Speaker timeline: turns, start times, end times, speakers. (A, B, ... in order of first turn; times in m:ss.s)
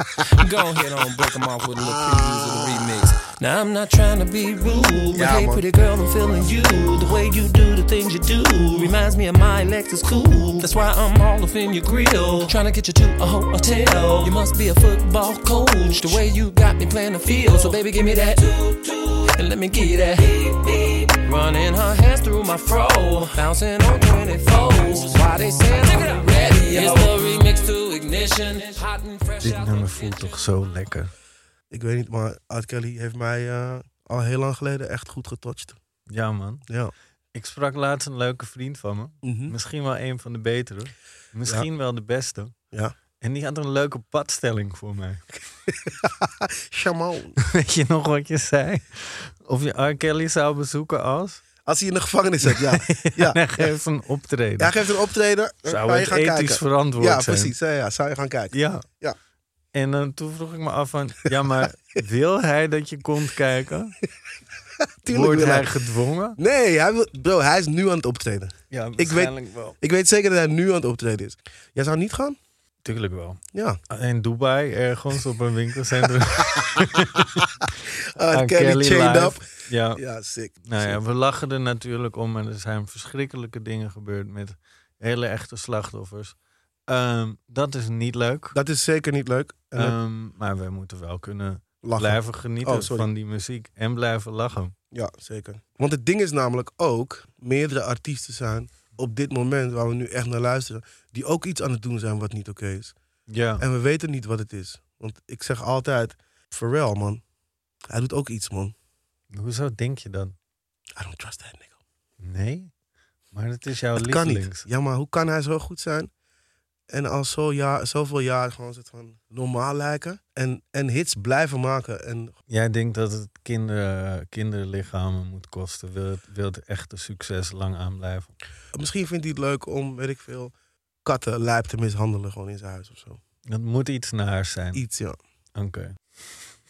0:00.3-0:30.4 A
0:01.8-0:02.7 B
0:05.1-0:05.6 B
0:29.4-0:31.1 C
0:31.7-0:35.8 B
0:36.1-0:36.6 C
0:37.4-0:42.5 C
0:39.2-0:39.6 B
0:43.2-0:45.2 C
0:45.7-0:47.4 B
0:47.4-0:51.4 C
0:51.6-0:53.7 B
0:52.5-0:54.8 C
0:54.6-0:59.2 B
0:55.7-0:57.6 C
0:58.5-0:58.8 C
0:59.7-1:04.0 C
1:05.0-1:05.7 B
1:05.1-1:06.4 C
1:06.4-1:12.4 B
1:08.7-1:09.8 C
1:12.8-1:17.5 C
1:13.5-1:13.8 B
1:16.5-1:17.0 B
1:18.2-1:19.4 B
1:18.3-1:20.0 C
1:19.9-1:21.0 B
1:20.7-1:26.4 C
1:26.9-1:28.6 C
1:28.5-1:30.0 B
1:29.8-1:34.7 C
1:31.8-1:33.1 B
1:34.9-1:43.0 B
1:43.3-1:43.6 C
1:43.6-1:47.2 B
1:47.9-1:48.8 B
1:49.3-1:50.4 C
1:51.0-1:51.8 B
1:52.2-1:52.7 C
1:53.3-1:54.6 C
1:54.0-1:56.1 B
1:56.9-2:02.4 B
2:02.5-2:08.3 C
2:08.7-2:10.5 B
2:11.0-2:13.2 B
2:13.5-2:14.8 C
2:14.7-2:15.2 B
2:15.6-2:15.9 C